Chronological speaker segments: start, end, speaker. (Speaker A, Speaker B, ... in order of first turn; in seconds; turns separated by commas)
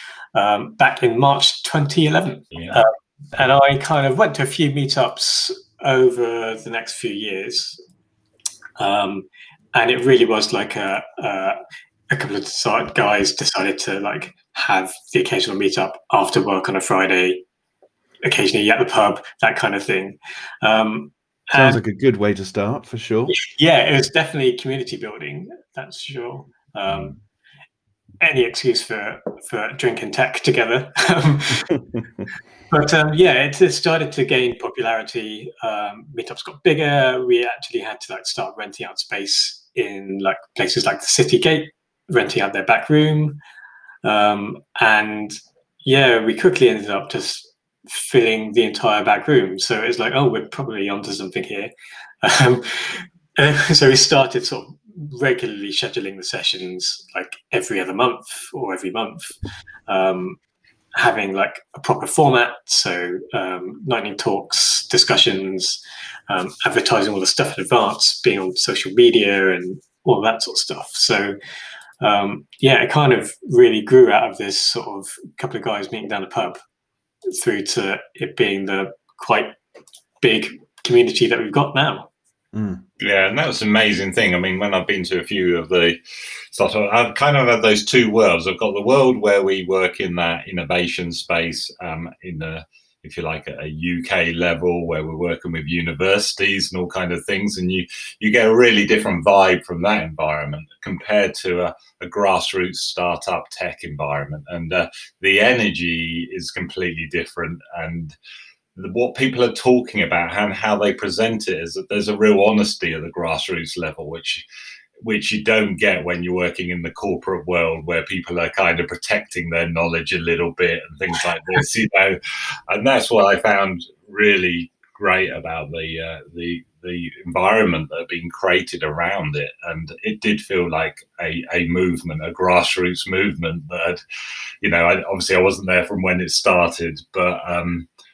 Speaker A: 0.3-7.8, Speaker B: 2.5-2.8, Speaker A: 8.8-11.6, Speaker A: 12.1-17.4, Speaker A: 18.2-21.8, Speaker C: 21.5-23.4, Speaker A: 23.3-27.2, Speaker A: 28.2-31.7, Speaker A: 32.7-43.4, Speaker A: 44.0-51.7, Speaker A: 52.2-59.3, Speaker A: 59.9-60.4, Speaker A: 61.0-71.3, Speaker A: 72.0-76.6, Speaker A: 77.3-79.5, Speaker A: 80.2-82.1, Speaker C: 82.5-82.8, Speaker B: 83.0-86.0, Speaker B: 86.5-108.2, Speaker B: 108.8-114.4, Speaker B: 115.0-134.0, Speaker B: 134.6-137.9